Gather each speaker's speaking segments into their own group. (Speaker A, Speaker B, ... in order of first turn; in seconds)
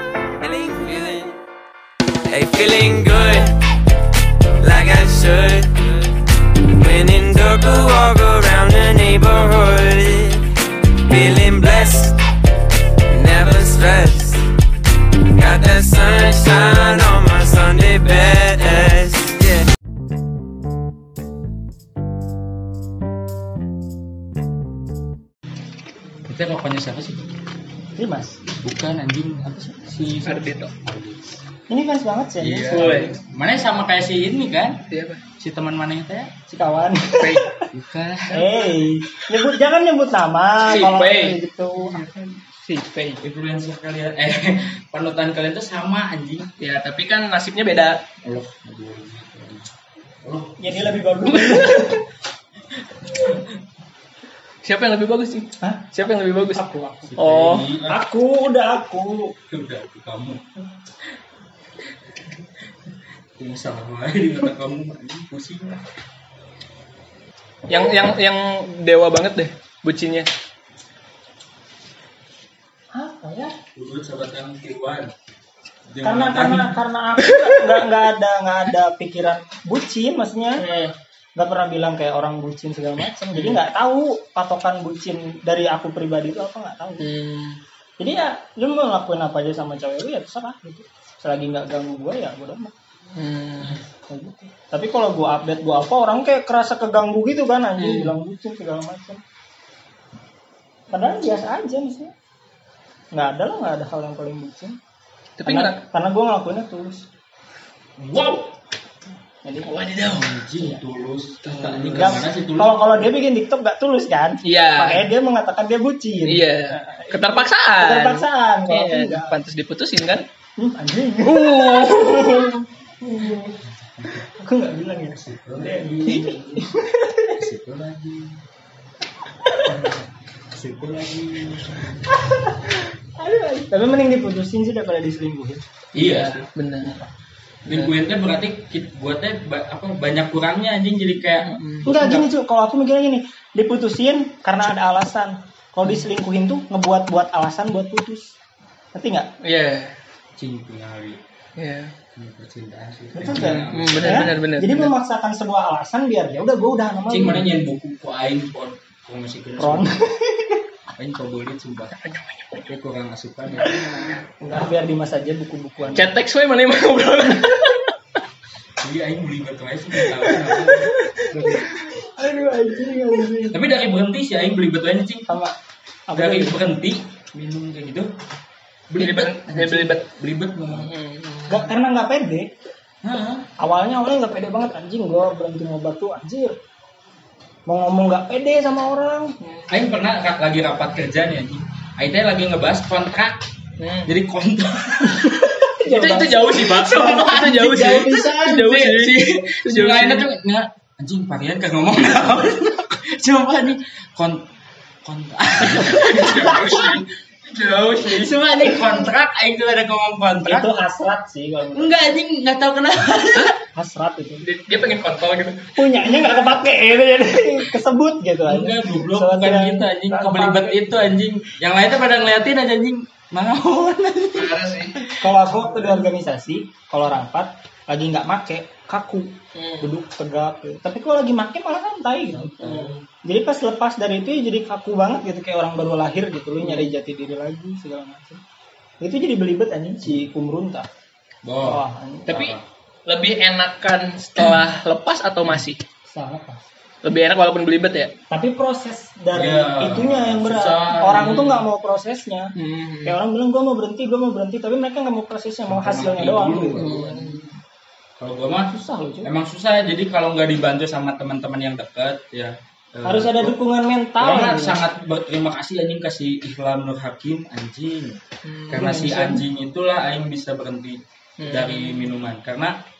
Speaker A: 0.4-1.4, 2.3-3.6, 4.6-12.2, 13.1-14.5, 15.3-19.6
Speaker B: 26.2-27.3, 28.6-31.4, 32.4-34.8, 35.4-36.3, 37.2-38.5, 43.2-46.5, 48.2-49.7, 50.2-51.0, 57.1-58.0, 59.5-60.4, 63.4-65.8, 73.7-75.1, 75.9-76.8, 108.0-108.5, 110.0-113.0, 123.8-124.2, 125.1-126.3, 127.3-128.4, 129.6-132.2, 135.9-136.5, 137.7-142.2, 150.3-151.2, 152.2-154.4, 157.1-159.9, 160.9-162.0, 162.7-163.8, 168.8-171.5, 173.5-175.3, 176.1-178.2, 178.9-180.9, 183.0-183.5, 189.7-193.4, 194.1-204.4, 205.0-210.7, 211.7-213.6, 218.4-225.8, 232.3-233.0, 241.4-242.6, 249.3-251.6, 255.7-257.4, 258.2-263.5, 264.2-268.2, 268.7-272.8
Speaker C: 27.9-28.4, 31.7-33.1, 36.5-37.6, 38.3-42.1, 50.6-52.0, 55.6-57.3, 57.8-59.3, 72.9-73.5, 76.0-80.6, 81.3-87.0, 88.0-92.7, 94.1-99.2, 100.9-102.1, 103.1-104.8, 105.5-107.0, 109.4-109.7, 111.8-119.4, 120.6-122.5, 123.0-123.5, 124.3-127.3, 132.2-135.7, 141.8-148.3, 148.9-149.3, 153.1-157.5, 159.6-160.6, 163.6-166.1, 171.3-173.6, 175.3-175.5, 176.1-176.6, 181.5-182.5, 183.6-186.6, 187.7-189.3, 195.0-198.7, 205.6-207.0, 210.4-212.0, 213.7-214.4, 215.8-220.9, 225.2-232.7, 233.2-238.4, 239.0-240.9, 241.6-242.3, 246.1-246.6, 248.3-252.5, 253.0-256.9, 258.7-259.3, 263.0-264.8
Speaker D: 30.2-30.7, 32.7-33.1, 34.9-35.2, 40.6-43.2, 46.6-48.0, 51.3-52.0, 54.6-56.6, 57.2-57.7, 67.7-70.3, 77.2-77.8, 80.6-80.9, 87.0-87.6, 93.2-93.8, 97.8-98.1, 105.4-105.8, 109.6-110.5, 111.4-112.2, 114.4-115.0, 116.2-120.2, 121.2-122.6, 126.1-126.5, 135.9-137.0, 137.7-137.9, 141.4-141.9, 149.4-149.9, 151.6-151.9, 153.3-154.9, 162.0-162.6, 165.9-167.9, 170.0-171.7, 179.0-180.1, 180.7-181.7, 189.4-189.7, 193.8-194.1, 195.8-200.2, 206.1-206.5, 214.4-215.8, 224.3-225.1, 229.5-229.9, 232.6-232.9, 236.6-236.9, 242.3-242.6, 243.1-245.8, 247.0-248.1, 252.6-253.2, 256.8-257.4, 268.4-269.4, 271.4-272.0